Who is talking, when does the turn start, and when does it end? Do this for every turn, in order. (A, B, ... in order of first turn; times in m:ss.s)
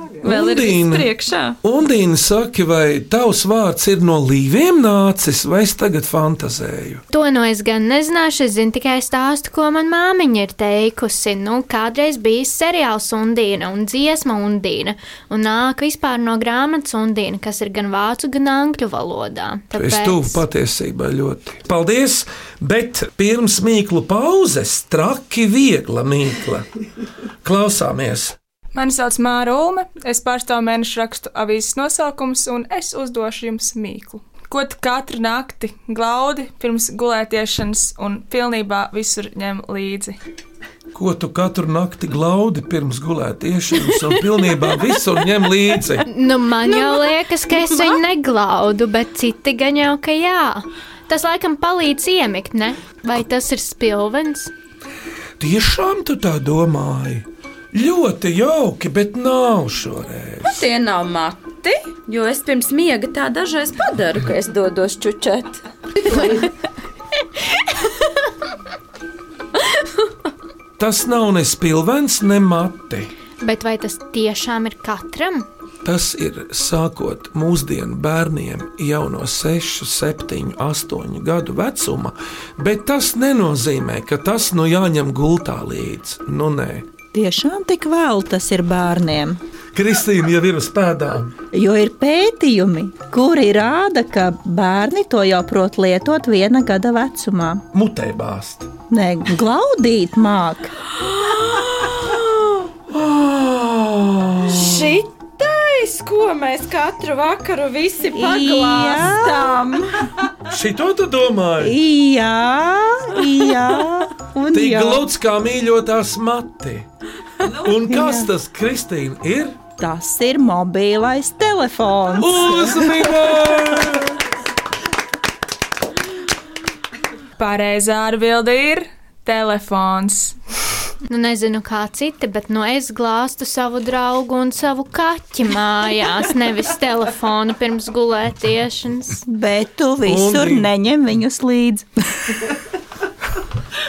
0:00.2-0:01.6 A
0:00.2-0:07.0 B
0:07.1-0:20.4 C
0:19.7-0:26.7 B
0:27.4-0:28.4 B
0:28.8-0:40.2 D
0:40.9-0:46.0 B
0:46.1-0:54.5 C
0:55.4-1:00.6 B
1:00.5-1:06.5 A
1:10.8-1:13.1 B
1:13.4-1:15.5 C
1:15.8-1:26.8 B
1:27.1-1:29.4 E
1:29.7-1:31.3 B
1:31.5-1:37.6 E
1:37.7-1:38.7 B
1:38.9-1:40.7 E
1:41.0-1:42.3 A
1:42.9-1:45.0 B
1:44.4-1:50.1 A
1:48.1-1:49.6 E
1:50.5-1:51.8 B
1:51.6-1:55.1 E
1:54.5-1:56.9 B
1:57.6-1:59.6 B
1:57.9-1:58.2 E
1:59.8-2:03.2 E
2:02.2-2:04.2 B
2:07.4-2:10.4 D
2:11.1-2:19.2 C
2:19.3-2:22.4 E
2:20.0-2:20.7 B